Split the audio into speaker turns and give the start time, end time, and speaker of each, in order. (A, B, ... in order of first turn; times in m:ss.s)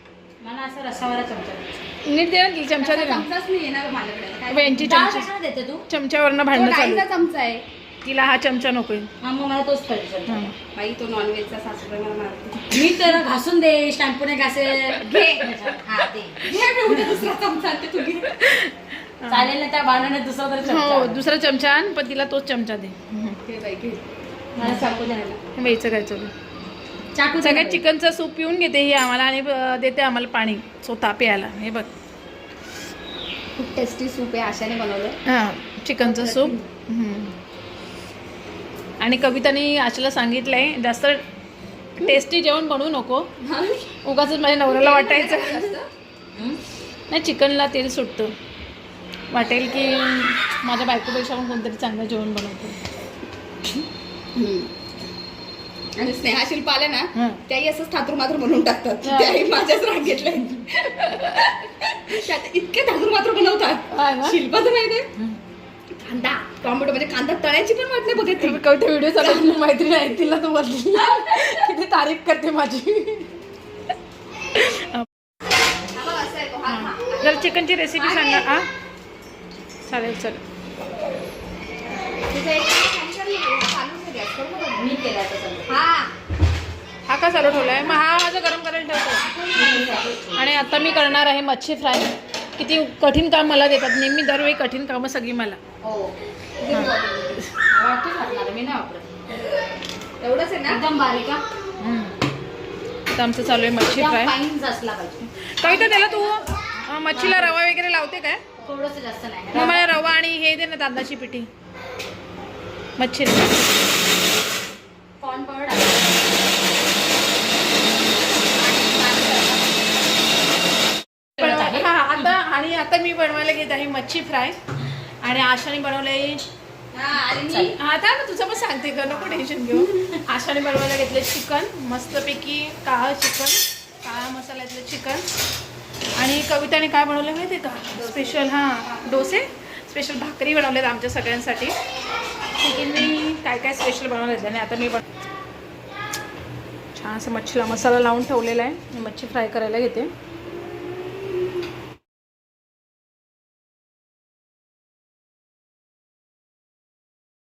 0:00.4-0:01.8 A
0:02.0-0:03.3 B
0:02.8-0:04.9 C
0:04.5-0:05.3 B
0:04.8-0:05.8 A
0:05.9-0:07.1 B
0:06.5-0:07.6 C
0:08.0-0:09.1 B
0:09.2-0:10.5 A
0:10.3-0:10.6 B
0:10.7-0:12.7 C
0:12.7-0:16.5 A
0:15.0-0:15.5 C
0:16.4-0:18.3 C
0:18.3-0:19.5 B
0:19.3-0:21.2 A
0:20.6-0:23.4 B
0:23.4-0:24.0 C
0:24.6-0:25.3 A
0:24.6-0:24.8 B
0:24.8-0:25.4 C
0:25.6-0:26.3 B
0:27.1-0:27.8 A
0:27.4-0:31.9 B
0:33.6-0:35.2 C
0:35.3-0:37.4 B
0:36.0-0:36.6 C
0:39.0-0:41.2 B
0:42.0-0:43.3 B
0:43.4-0:43.9 C
0:44.0-0:45.7 B
0:44.7-0:45.9 C
0:47.1-0:48.3 B
0:49.3-0:52.8 B
0:54.3-0:54.7 C
0:56.0-1:05.1 C
0:57.1-0:57.4 B
0:59.0-0:59.5 B
1:03.9-1:04.4 B
1:05.9-1:08.6 C
1:08.4-1:13.4 B
1:11.2-1:11.5 C
1:14.5-1:15.1 B
1:15.9-1:17.4 C
1:16.7-1:18.6 B
1:18.0-1:18.5 C
1:19.9-1:20.4 B
1:22.2-1:24.8 C
1:24.7-1:25.7 A
1:25.6-1:26.1 C
1:27.1-1:29.3 B
1:29.3-1:31.2 A
1:29.4-1:29.9 C
1:30.3-1:35.6 B
1:35.8-1:36.1 A
1:36.6-1:37.4 C
1:37.7-1:39.1 A
1:40.2-1:40.8 C
1:40.7-1:41.4 A
1:41.8-1:42.1 B
1:43.1-1:44.3 B
1:43.8-1:47.6 A
1:45.4-1:48.4 B
1:48.6-1:49.8 A
1:49.5-1:51.5 B
1:53.0-1:53.8 B
1:55.2-1:56.2 A
1:58.5-1:59.8 C
2:01.4-2:02.3 A
2:01.4-2:04.6 B
2:05.2-2:06.4 B
2:06.9-2:07.7 C
2:07.5-2:07.7 A
2:07.8-2:15.2 B
2:16.2-2:21.7 B
2:22.6-2:25.0 B
2:26.9-2:30.1 B